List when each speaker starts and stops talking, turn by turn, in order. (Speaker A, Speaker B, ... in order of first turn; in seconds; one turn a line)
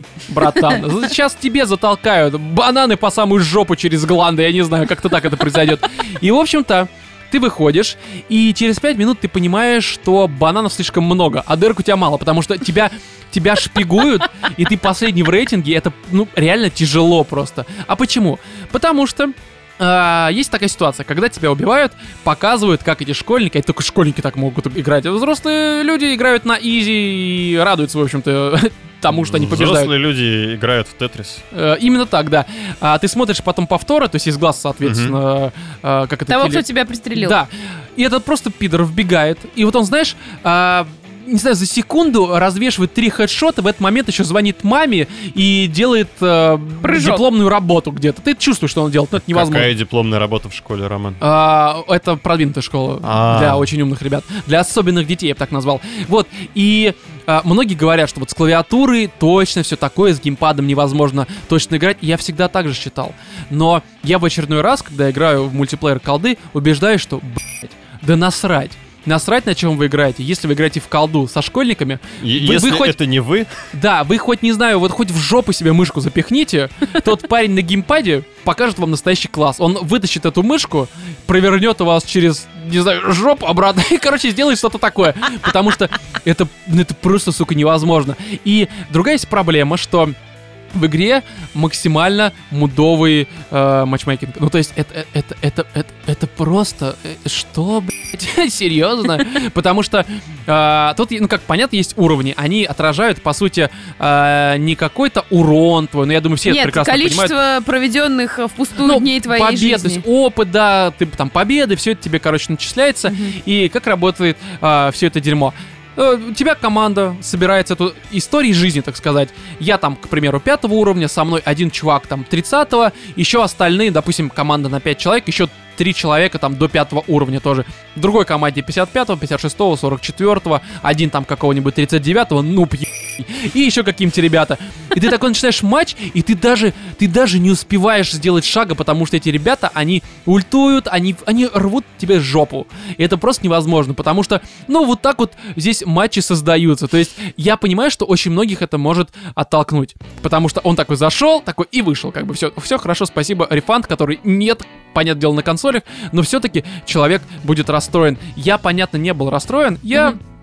Speaker A: 0.2-29.9
Speaker B: 29.1-31.4
Speaker A: 31.5-36.6
Speaker B: 34.8-35.2
Speaker C: 36.3-37.4
Speaker A: 37.1-49.7
Speaker C: 46.8-47.2
Speaker B: 49.2-51.2
Speaker A: 51.2-73.0
Speaker B: 53.0-53.7
Speaker B: 72.2-73.5
Speaker A: 73.7-90.2
Speaker A: 90.7-107.3
Speaker C: 106.5-110.0
Speaker A: 108.8-160.2
Speaker C: 113.1-113.3